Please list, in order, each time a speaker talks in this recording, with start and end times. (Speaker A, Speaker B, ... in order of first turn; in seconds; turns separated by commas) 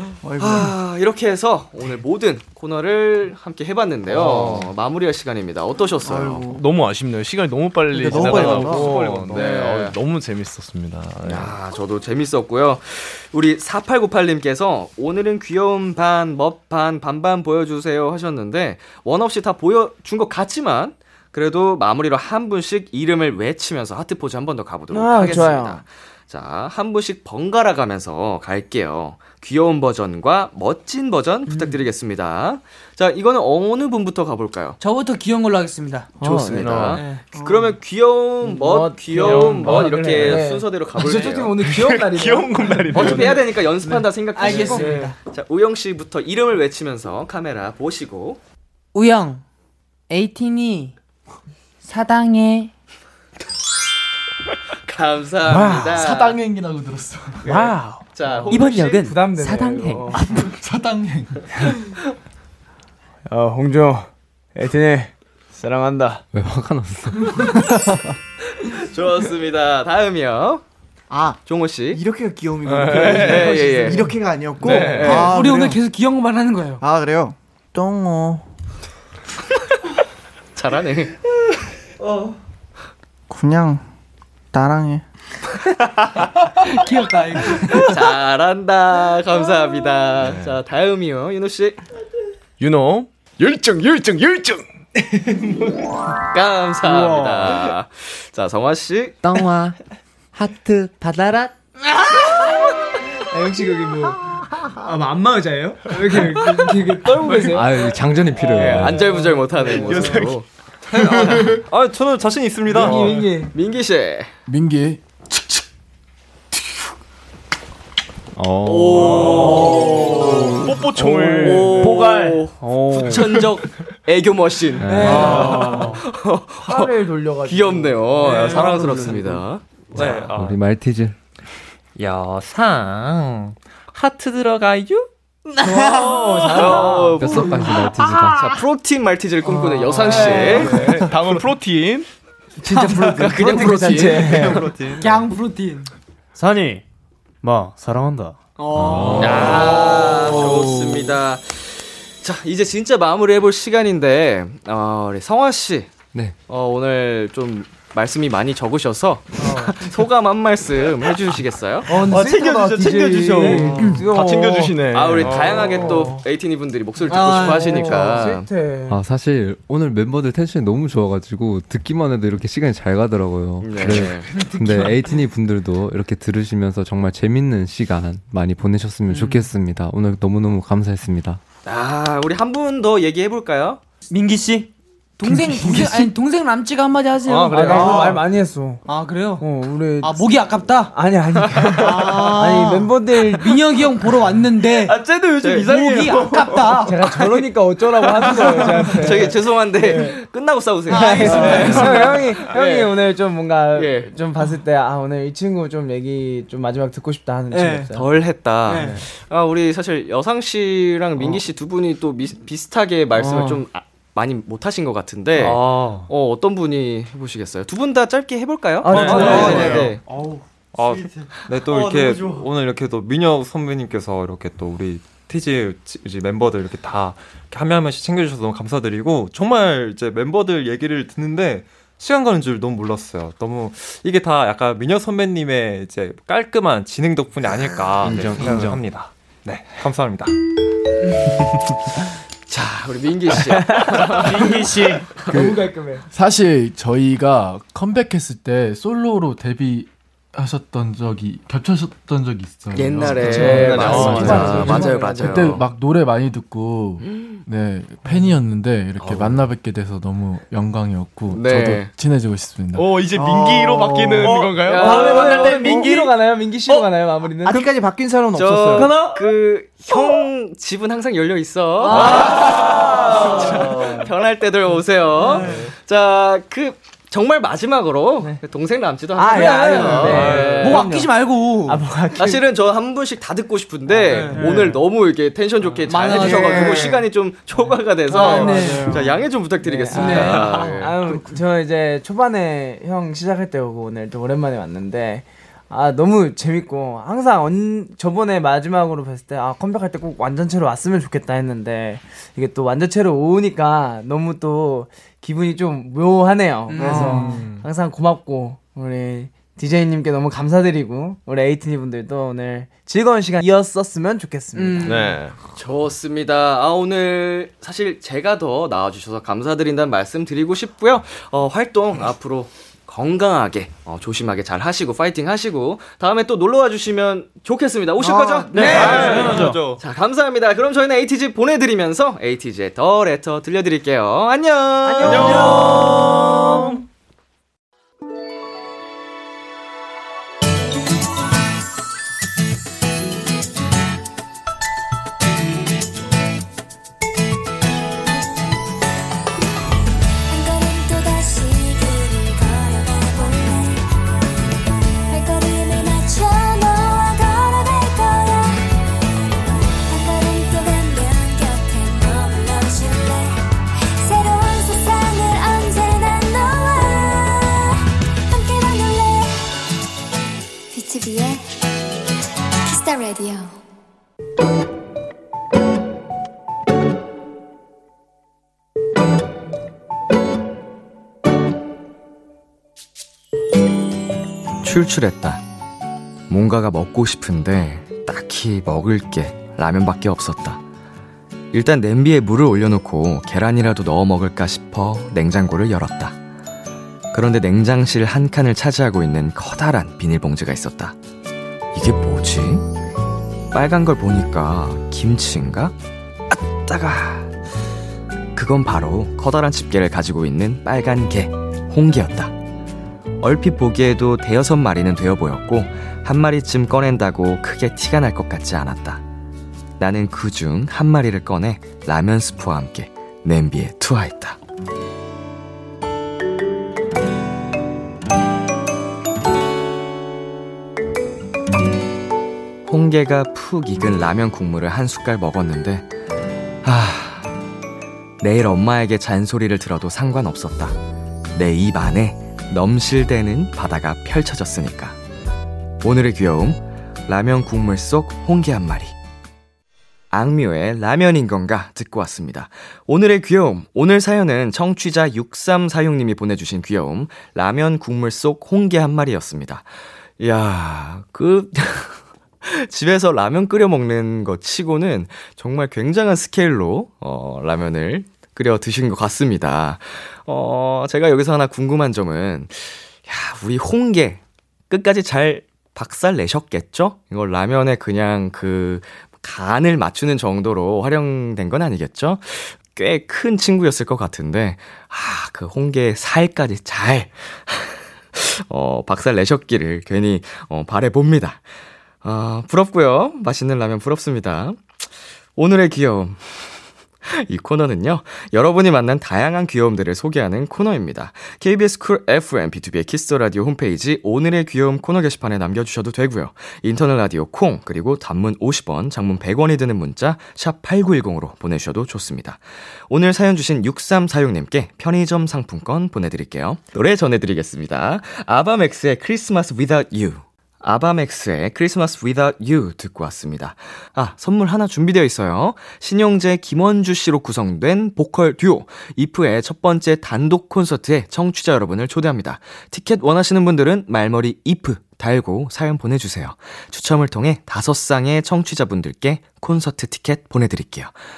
Speaker A: 0.2-0.8, Speaker B: 0.4-6.5, Speaker C: 4.1-4.7, Speaker A: 6.0-6.6, Speaker C: 6.5-11.5, Speaker A: 7.9-9.1, Speaker B: 8.0-10.0, Speaker B: 11.2-34.8, Speaker D: 24.9-25.8, Speaker E: 31.5-31.8, Speaker E: 34.8-36.1, Speaker D: 36.2-36.9, Speaker B: 36.2-41.6, Speaker F: 36.4-37.0, Speaker E: 36.9-37.2, Speaker A: 37.4-37.7, Speaker D: 38.4-45.1, Speaker C: 41.6-43.4, Speaker B: 42.9-48.4, Speaker E: 44.4-45.2, Speaker E: 48.9-49.4, Speaker E: 50.1-51.0, Speaker E: 51.8-52.7, Speaker B: 54.9-56.4, Speaker G: 55.5-57.5, Speaker B: 57.5-59.1, Speaker F: 57.5-60.1, Speaker E: 57.5-57.8, Speaker D: 58.3-58.5, Speaker D: 59.0-60.2, Speaker G: 60.2-61.7, Speaker D: 63.3-66.2, Speaker H: 66.3-67.6, Speaker B: 68.6-70.6, Speaker A: 71.1-75.8, Speaker B: 71.5-72.0, Speaker C: 72.7-73.6, Speaker B: 72.9-74.1, Speaker D: 73.2-74.1, Speaker C: 74.6-75.3, Speaker E: 74.6-76.8, Speaker B: 74.7-75.4, Speaker A: 76.8-78.5, Speaker B: 80.5-81.1, Speaker A: 83.3-83.8, Speaker A: 84.5-85.0, Speaker E: 86.5-88.0, Speaker B: 87.5-91.8, Speaker C: 90.2-90.6, Speaker C: 92.6-94.6, Speaker B: 96.3-99.2, Speaker H: 99.2-99.8, Speaker H: 100.3-101.5, Speaker D: 103.2-107.9, Speaker H: 107.4-109.1, Speaker D: 108.4-110.3, Speaker B: 108.4-110.5, Speaker C: 109.6-110.4, Speaker I: 109.9-110.2, Speaker I: 110.9-113.2, Speaker B: 111.0-111.5, Speaker G: 111.3-111.6, Speaker D: 112.7-113.5, Speaker B: 113.5-114.3, Speaker G: 114.5-115.6, Speaker H: 118.3-119.6, Speaker B: 118.6-120.5, Speaker I: 118.9-119.9, Speaker C: 119.5-122.1, Speaker H: 120.3-120.7, Speaker F: 121.0-123.4, Speaker B: 121.3-126.9, Speaker I: 121.5-122.0, Speaker H: 124.8-125.3, Speaker D: 124.9-125.9, Speaker I: 124.9-126.0, Speaker E: 125.1-125.5, Speaker D: 126.6-129.4, Speaker B: 127.5-129.6, Speaker I: 128.2-129.2, Speaker I: 129.9-130.6, Speaker H: 129.9-131.2, Speaker I: 131.9-135.1, Speaker E: 135.5-138.6, Speaker D: 135.6-137.3, Speaker B: 135.9-137.8, Speaker H: 137.2-138.5, Speaker B: 138.3-141.0, Speaker E: 139.5-141.0, Speaker D: 140.1-140.6, Speaker C: 140.3-142.1, Speaker D: 142.6-144.7, Speaker E: 142.6-144.2, Speaker B: 143.0-144.7, Speaker I: 144.0-145.3, Speaker E: 144.9-145.9, Speaker F: 146.3-146.8, Speaker F: 147.4-148.4, Speaker E: 148.6-150.6, Speaker H: 148.8-149.6, Speaker I: 148.9-149.8, Speaker B: 149.2-155.9, Speaker B: 156.5-162.1, Speaker D: 159.4-159.7, Speaker D: 161.9-166.2, Speaker C: 162.0-166.0, Speaker E: 163.4-164.1, Speaker B: 164.9-168.5, Speaker E: 167.1-168.2, Speaker D: 167.3-169.0, Speaker H: 168.9-181.4, Speaker B: 173.6-174.3, Speaker E: 174.2-175.2, Speaker E: 179.1-179.5, Speaker B: 181.6-183.8, Speaker F: 184.1-184.7, Speaker E: 185.2-188.2, Speaker G: 185.2-186.0, Speaker C: 187.2-188.2, Speaker D: 187.5-188.8, Speaker E: 188.8-189.4, Speaker D: 189.4-190.3, Speaker E: 190.0-190.9, Speaker D: 190.9-193.6, Speaker E: 191.7-195.0, Speaker B: 195.4-196.5, Speaker E: 195.6-197.0, Speaker D: 196.8-200.2, Speaker B: 198.4-202.9, Speaker E: 200.9-202.2, Speaker D: 200.9-208.0, Speaker C: 201.4-201.8, Speaker B: 203.7-204.1, Speaker E: 207.5-207.9, Speaker B: 207.9-220.0, Speaker E: 208.7-209.0, Speaker I: 215.3-216.1, Speaker D: 218.8-219.9, Speaker I: 218.9-220.0, Speaker C: 218.9-219.9, Speaker I: 220.7-240.3, Speaker B: 221.4-222.4, Speaker H: 238.0-238.9, Speaker B: 242.5-244.5, Speaker F: 244.0-245.1, Speaker D: 245.2-246.1, Speaker G: 245.2-263.0, Speaker B: 252.7-255.6, Speaker C: 253.2-254.9, Speaker D: 253.2-255.4, Speaker E: 254.3-254.9, Speaker B: 257.0-257.4, Speaker B: 259.0-259.4, Speaker B: 261.3-261.9, Speaker C: 262.7-265.1, Speaker B: 264.6-265.6, Speaker D: 264.7-267.6, Speaker E: 265.0-265.9, Speaker F: 265.0-266.1, Speaker A: 265.6-265.9, Speaker A: 267.4-268.9, Speaker B: 268.4-281.0, Speaker E: 268.7-269.1, Speaker E: 271.8-272.7, Speaker C: 271.9-272.2, Speaker E: 275.2-275.7, Speaker C: 275.4-275.7, Speaker D: 279.2-282.4, Speaker E: 279.2-281.9, Speaker I: 280.0-280.6, Speaker B: 282.2-291.0, Speaker E: 284.1-284.6, Speaker D: 284.1-284.5, Speaker E: 285.9-286.9, Speaker A: 286.1-287.1, Speaker E: 288.1-289.0, Speaker D: 288.1-289.0, Speaker A: 288.3-289.0, Speaker D: 289.6-315.1, Speaker E: 289.9-290.7, Speaker E: 306.7-307.5, Speaker A: 306.8-307.4, Speaker C: 307.4-307.6, Speaker E: 314.6-315.2, Speaker C: 314.8-315.4, Speaker B: 315.6-336.3, Speaker A: 328.0-329.0, Speaker E: 328.5-329.4, Speaker F: 328.5-329.6, Speaker I: 328.6-329.8, Speaker E: 334.9-336.8, Speaker D: 335.0-335.6, Speaker J: 350.3-353.8, Speaker J: 355.1-358.6, Speaker J: 359.9-363.4, Speaker J: 363.9-367.7, Speaker J: 368.3-369.5, Speaker J: 370.7-371.6, Speaker J: 372.7-373.6, Speaker B: 384.6-385.4, Speaker B: 386.3-390.6, Speaker B: 391.5-396.2, Speaker B: 397.1-400.9, Speaker B: 401.7-402.6, Speaker B: 403.5-405.7, Speaker B: 406.3-407.3, Speaker B: 408.4-412.4, Speaker B: 413.2-419.0, Speaker B: 419.8-424.4, Speaker B: 432.7-435.9, Speaker B: 436.6-437.3, Speaker B: 438.2-440.8, Speaker B: 441.3-445.0, Speaker B: 445.8-448.9, Speaker B: 450.1-459.7, Speaker B: 460.2-491.4, Speaker B: 492.0-494.6, Speaker B: 495.4-541.0